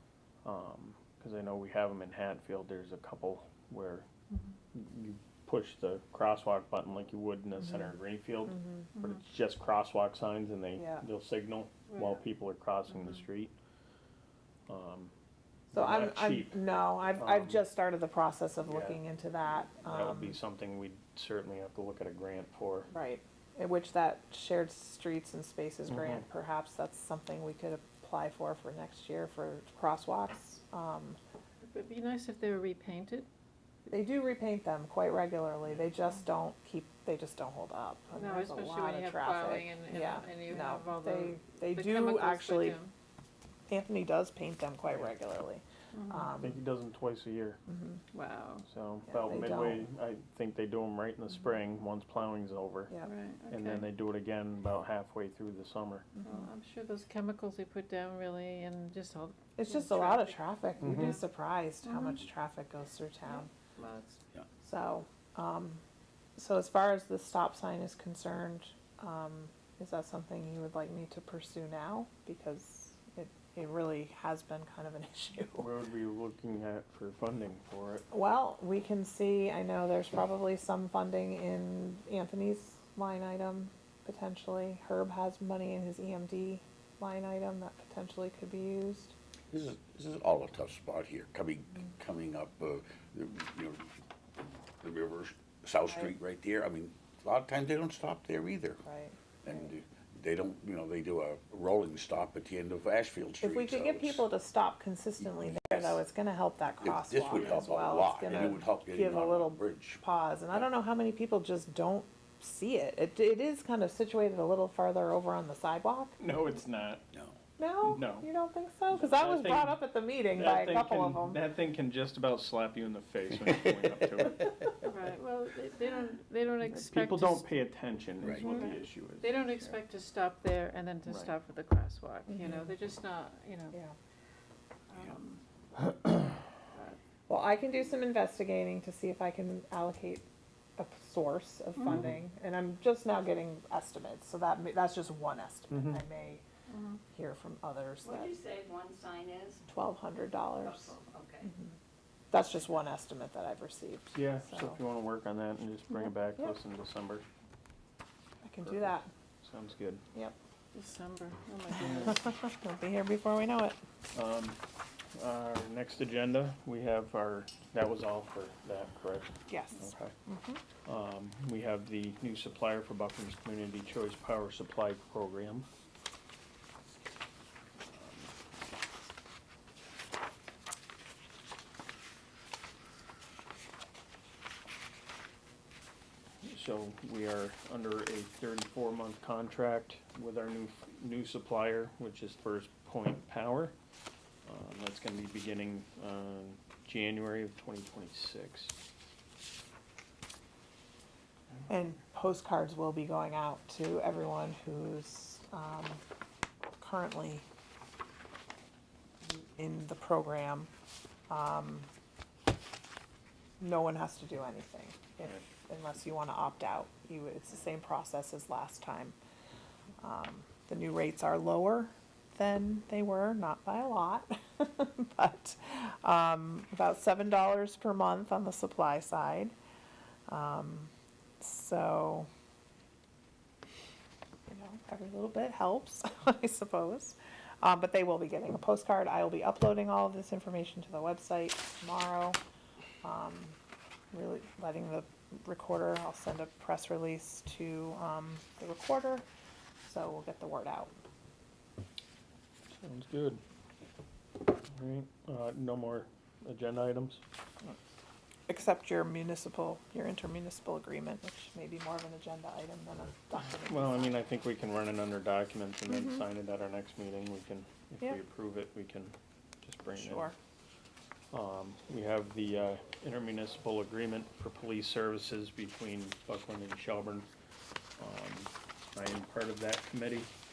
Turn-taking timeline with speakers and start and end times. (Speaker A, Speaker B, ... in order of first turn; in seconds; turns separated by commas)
Speaker A: 0.4-4.1, Speaker A: 4.7-13.5, Speaker B: 7.6-7.9, Speaker B: 8.5-8.9, Speaker B: 10.8-11.0, Speaker C: 11.9-12.2, Speaker A: 14.7-15.1, Speaker A: 15.7-16.6, Speaker B: 15.7-20.4, Speaker A: 17.1-17.6, Speaker A: 18.6-19.0, Speaker A: 19.8-22.9, Speaker B: 22.9-31.2, Speaker A: 25.9-26.2, Speaker C: 31.6-33.3, Speaker B: 33.9-42.8, Speaker C: 38.1-42.9, Speaker B: 43.7-46.6, Speaker C: 45.9-46.3, Speaker A: 46.4-47.6, Speaker B: 47.7-48.0, Speaker C: 48.1-48.6, Speaker A: 48.7-52.9, Speaker B: 49.1-49.9, Speaker C: 53.0-53.9, Speaker A: 53.5-56.1, Speaker C: 56.2-60.4, Speaker B: 59.6-63.5, Speaker A: 60.8-61.2, Speaker C: 61.8-62.2, Speaker C: 63.3-64.2, Speaker B: 64.6-65.8, Speaker B: 66.4-75.7, Speaker A: 75.6-78.1, Speaker B: 78.1-89.1, Speaker D: 89.5-93.9, Speaker D: 94.8-98.8, Speaker B: 98.8-99.7, Speaker D: 99.4-104.3, Speaker B: 103.4-116.2, Speaker D: 105.2-106.0, Speaker D: 106.8-110.7, Speaker A: 116.2-117.0, Speaker D: 117.1-117.4, Speaker B: 117.6-121.4, Speaker A: 117.8-118.3, Speaker A: 118.9-119.8, Speaker A: 120.3-124.8, Speaker C: 124.8-127.5, Speaker A: 126.6-129.8, Speaker C: 128.4-133.8, Speaker A: 131.1-131.3, Speaker B: 132.3-132.7, Speaker C: 134.9-135.4, Speaker C: 136.7-137.0, Speaker B: 137.3-146.4, Speaker A: 141.9-142.2, Speaker A: 145.7-146.0, Speaker C: 146.7-147.0, Speaker B: 147.1-148.4, Speaker E: 148.1-149.6, Speaker B: 149.7-151.7, Speaker E: 150.7-151.5, Speaker B: 152.3-154.8, Speaker A: 154.2-157.2, Speaker B: 158.4-159.1, Speaker A: 158.7-160.1, Speaker C: 160.7-162.2, Speaker A: 161.8-162.2, Speaker B: 162.1-163.8, Speaker A: 164.1-164.6, Speaker A: 165.1-170.2, Speaker B: 169.5-170.6, Speaker A: 170.8-175.7, Speaker A: 177.8-178.3, Speaker A: 186.4-193.8, Speaker A: 194.4-198.7, Speaker B: 201.7-206.0, Speaker B: 206.8-207.5, Speaker B: 209.3-210.7, Speaker B: 211.3-211.9, Speaker B: 213.6-219.2, Speaker B: 220.0-229.6, Speaker B: 230.3-232.3, Speaker B: 234.5-242.4, Speaker B: 243.0-243.6, Speaker B: 244.1-249.2, Speaker B: 249.8-250.9, Speaker A: 252.7-253.4, Speaker A: 254.7-257.2, Speaker B: 258.5-264.2, Speaker A: 263.7-270.3, Speaker B: 265.9-266.2, Speaker B: 269.9-270.4, Speaker A: 271.3-277.3, Speaker A: 278.0-280.3